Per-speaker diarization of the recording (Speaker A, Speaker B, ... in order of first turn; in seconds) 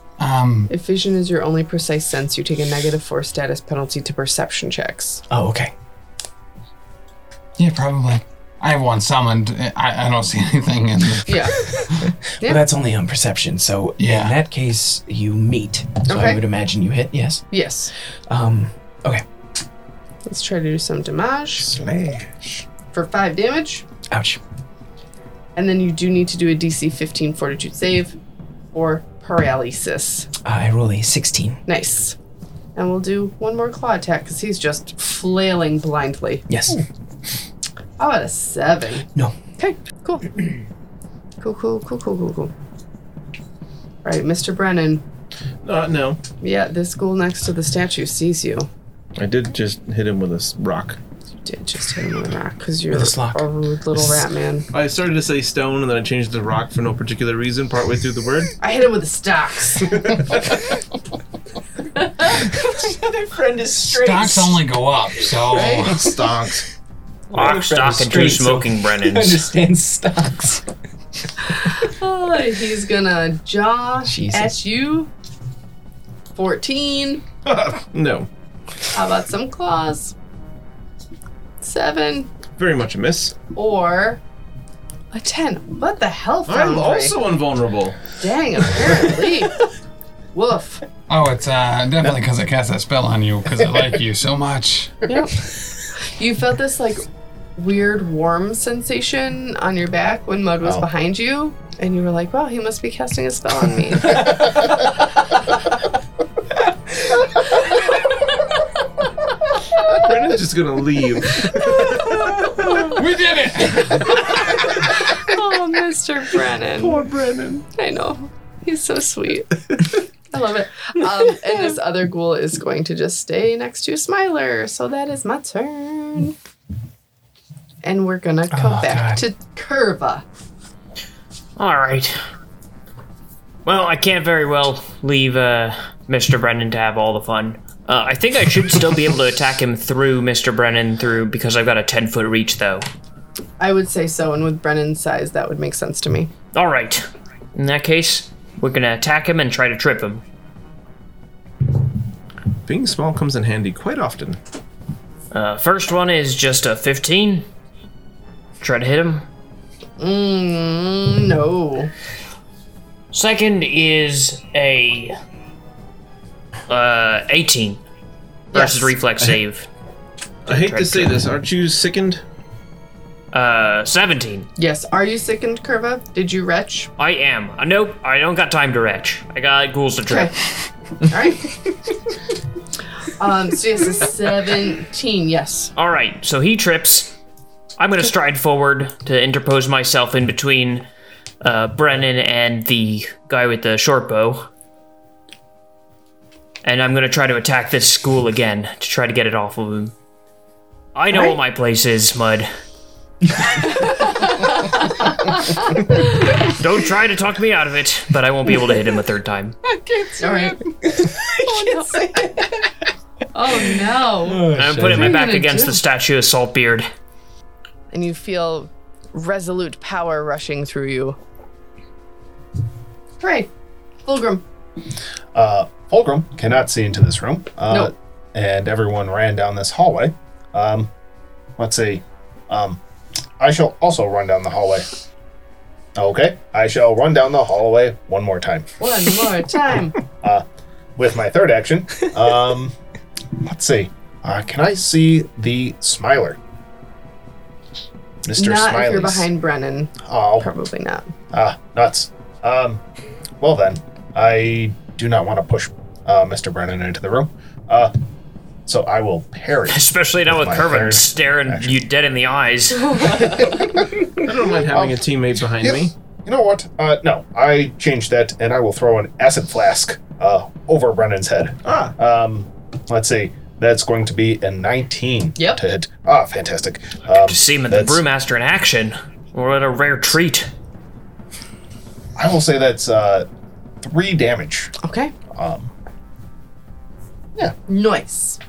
Speaker A: 0.2-0.7, 7.6-12.1, 14.0-14.4, 63.9-66.2, 91.1-95.0, 112.9-114.6, 209.6-210.6
Speaker B: 0.7-5.2, 11.3-11.6, 16.1-16.4, 17.5-17.9, 20.2-21.7, 22.9-23.9, 25.6-28.2, 28.7-30.3, 31.7-32.2, 32.8-36.5, 38.0-39.1, 39.6-40.3, 41.4-42.5, 44.0-45.0, 46.4-48.7, 51.5-54.7, 58.6-60.1, 62.0-62.8, 65.5-65.9, 71.5-75.1, 76.3-77.2, 78.9-80.2, 81.6-82.3, 83.5-84.2, 85.1-87.2, 88.2-89.6, 90.3-90.8, 95.1-95.4, 96.0-97.0, 97.6-104.7, 111.5-112.9, 114.0-117.0, 117.7-119.6, 120.3-126.4, 127.8-130.2, 143.6-146.3, 160.0-161.9, 168.5-168.9, 174.6-176.9, 180.1-180.3, 181.0-181.6, 183.2-185.7, 203.8-205.0, 210.2-210.6, 211.2-212.3, 213.3-215.8, 217.9-221.2, 223.2-223.5, 224.1-224.4, 238.8-240.0, 248.4-251.1, 284.8-285.1, 287.7-288.4
Speaker C: 5.3-5.7, 12.4-17.4, 18.3-19.2, 24.1-24.4, 30.4-31.6, 36.5-36.8, 52.9-54.2, 62.6-64.6, 67.3-70.7, 74.0-74.6, 128.5-129.2, 210.9-212.5, 214.5-214.9
Speaker D: 21.8-22.3, 225.3-230.9, 231.6-232.8, 233.4-234.9, 236.0-238.7, 241.0-242.8, 243.4-246.4, 248.3-249.3, 250.0-250.5, 251.3-252.8, 253.4-257.9, 258.7-261.7, 263.1-265.1, 265.6-278.0, 282.2-283.3, 283.8-284.7, 285.3-285.7
Speaker E: 45.6-46.2, 49.2-51.0, 54.7-58.5, 59.9-60.2, 65.7-66.7, 67.3-67.8, 77.5-78.3, 82.6-83.4, 86.5-88.0, 110.0-113.0, 116.7-117.7, 152.7-154.4, 170.5-172.2, 264.2-265.9, 271.6-271.9
Speaker F: 67.3-69.5, 131.6-132.2, 133.7-142.8, 146.5-150.2, 155.3-157.5, 158.6-159.3, 163.1-165.2, 166.7-167.8, 168.5-169.7, 170.5-171.3, 173.3-174.5, 177.0-180.3, 185.8-187.1, 187.8-190.8, 191.4-194.5, 196.6-199.9, 200.9-202.5, 206.4-209.6, 214.5-216.9, 259.7-263.2, 277.2-280.5